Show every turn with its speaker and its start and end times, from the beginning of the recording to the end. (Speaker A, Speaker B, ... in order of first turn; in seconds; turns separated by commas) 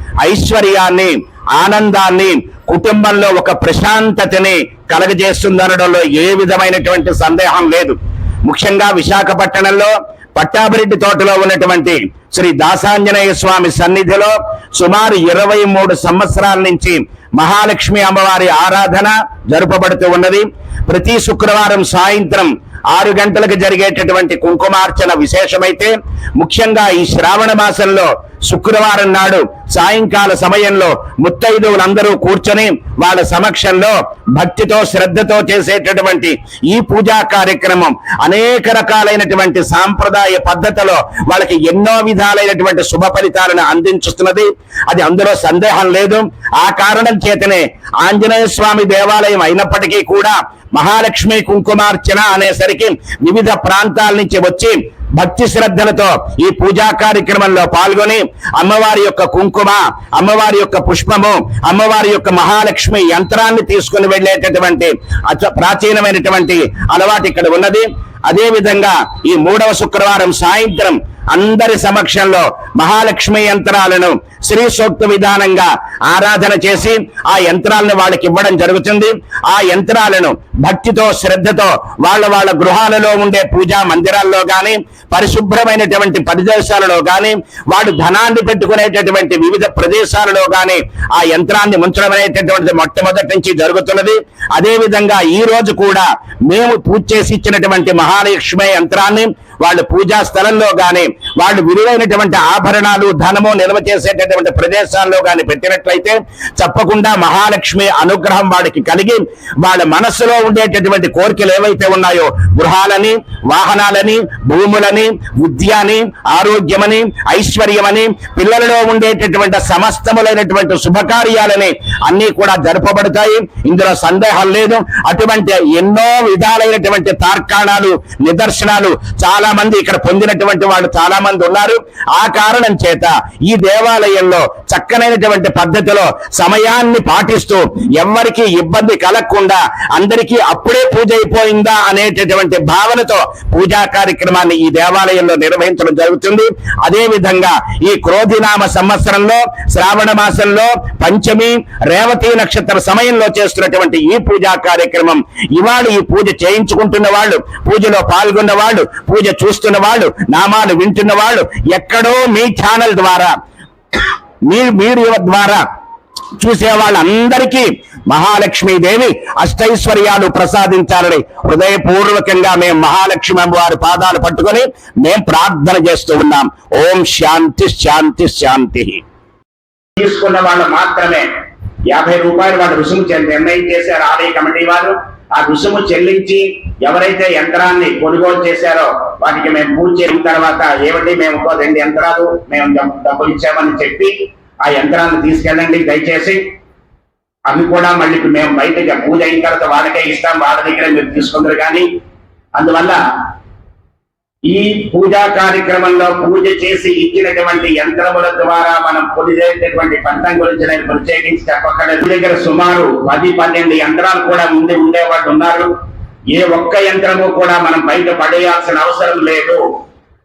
Speaker A: 0.2-163.3, Speaker A: 164.5-165.6, Speaker A: 166.4-179.0, Speaker A: 180.0-181.3, Speaker A: 181.9-194.1, Speaker A: 194.7-196.4, Speaker A: 197.5-201.9, Speaker A: 202.6-203.0, Speaker A: 204.5-215.7, Speaker A: 216.3-219.6